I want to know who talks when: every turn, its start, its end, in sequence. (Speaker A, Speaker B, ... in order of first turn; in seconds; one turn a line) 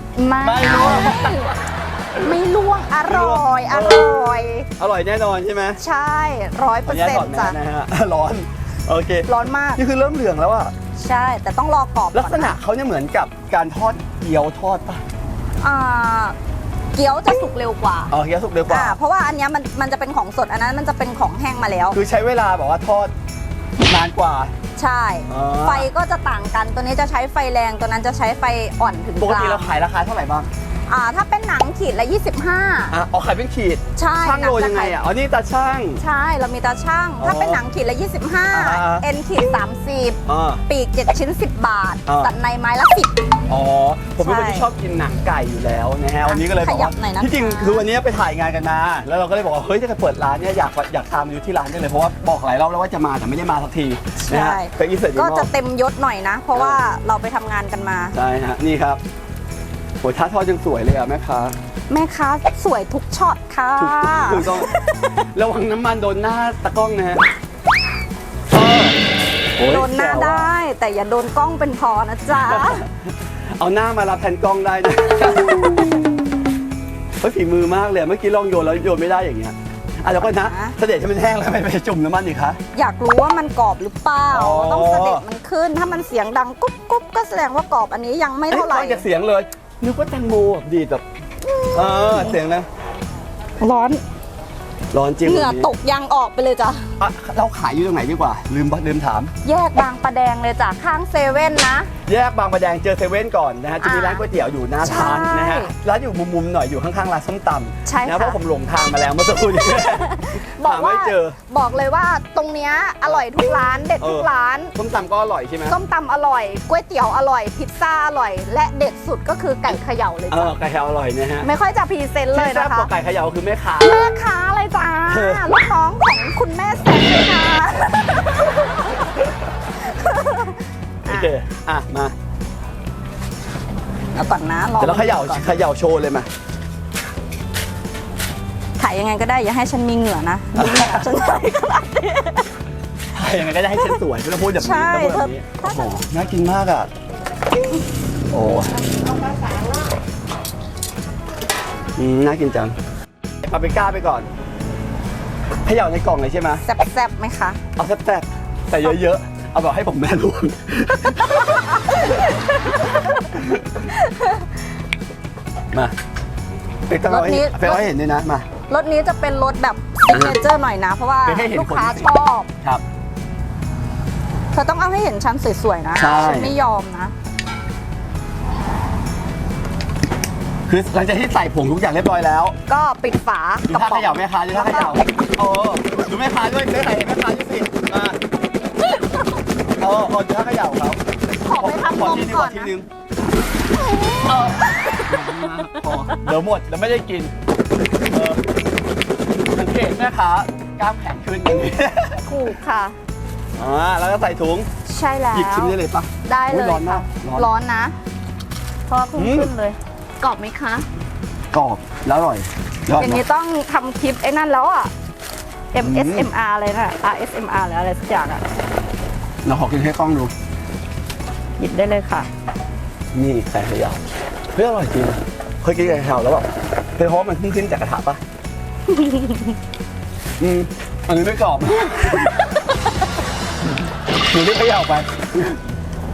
Speaker A: 0.2-1.5
Speaker B: 0.4-1.4
Speaker A: 2.2-4.7
Speaker B: 3.0-4.1
Speaker B: 4.8-5.8
Speaker A: 5.8-7.6
Speaker B: 6.9-10.7
Speaker A: 9.3-9.8
Speaker A: 11.0-12.6
Speaker B: 12.1-15.0
Speaker A: 15.6-16.4
Speaker A: 16.9-18.1
Speaker B: 18.1-19.0
Speaker A: 18.7-22.0
Speaker B: 21.9-23.1
Speaker B: 23.8-24.5
Speaker A: 24.8-29.8
Speaker B: 25.3-25.9
Speaker B: 29.2-30.5
Speaker A: 30.9-33.0
Speaker B: 32.9-36.0
Speaker A: 34.0-35.0
Speaker A: 36.0-43.2
Speaker B: 37.2-37.6
Speaker B: 38.5-39.1
Speaker B: 40.3-40.6
Speaker B: 42.1-42.3
Speaker B: 43.5-55.5
Speaker A: 44.2-44.7
Speaker A: 46.2-47.9
Speaker A: 54.2-58.2
Speaker B: 56.5-56.8
Speaker B: 58.1-59.0
Speaker B: 60.0-61.5
Speaker A: 61.9-65.2
Speaker B: 63.8-64.7
Speaker B: 65.3-67.2
Speaker B: 68.5-69.0
Speaker B: 69.6-70.5
Speaker A: 69.6-72.8
Speaker B: 72.3-72.9
Speaker B: 73.6-76.0
Speaker B: 77.2-82.6
Speaker A: 80.2-80.8
Speaker A: 82.7-89.1
Speaker B: 84.3-85.2
Speaker B: 88.5-91.0
Speaker A: 91.4-92.4
Speaker B: 91.7-92.7
Speaker A: 93.6-94.0
Speaker B: 94.9-95.7
Speaker A: 95.2-96.8
Speaker B: 97.0-99.3
Speaker A: 99.4-101.9
Speaker B: 102.1-111.4
Speaker A: 103.8-104.2
Speaker A: 104.8-105.7
Speaker A: 107.8-108.4
Speaker A: 109.6-114.7
Speaker B: 114.0-115.8
Speaker A: 115.7-120.5
Speaker B: 120.3-121.5
Speaker A: 121.4-122.9
Speaker B: 122.3-124.0
Speaker A: 123.8-129.2
Speaker B: 125.1-125.5
Speaker A: 129.7-131.3
Speaker B: 131.1-132.1
Speaker A: 134.1-135.6
Speaker B: 134.8-136.3
Speaker A: 138.8-142.5
Speaker B: 140.6-141.1
Speaker B: 143.1-146.9
Speaker A: 144.6-146.0
Speaker B: 148.3-148.7
Speaker B: 152.0-152.8
Speaker B: 153.4-154.3
Speaker B: 155.7-156.6
Speaker A: 156.6-157.6
Speaker B: 157.8-162.0
Speaker A: 162.8-163.2
Speaker B: 163.3-163.7
Speaker A: 163.9-164.5
Speaker B: 166.9-168.5
Speaker A: 167.0-167.9
Speaker A: 168.7-172.5
Speaker B: 170.1-170.4
Speaker B: 171.3-172.1
Speaker A: 174.5-177.1
Speaker B: 176.0-176.6
Speaker B: 180.7-182.6
Speaker A: 182.7-185.0
Speaker B: 183.7-188.2
Speaker B: 189.8-191.0
Speaker A: 191.4-192.7
Speaker B: 191.5-192.9
Speaker A: 193.7-196.1
Speaker B: 194.3-197.3
Speaker B: 198.1-198.4
Speaker B: 199.4-202.2
Speaker A: 202.2-203.0
Speaker B: 203.6-204.7
Speaker A: 204.9-208.0
Speaker B: 205.3-207.5
Speaker A: 208.9-210.9
Speaker B: 209.2-209.5
Speaker B: 211.5-213.2
Speaker A: 213.0-214.9
Speaker A: 215.7-218.4
Speaker B: 215.8-216.3
Speaker B: 219.4-220.3
Speaker A: 221.6-222.3
Speaker B: 223.1-228.2
Speaker A: 228.9-229.6
Speaker B: 230.4-232.3
Speaker B: 234.3-235.6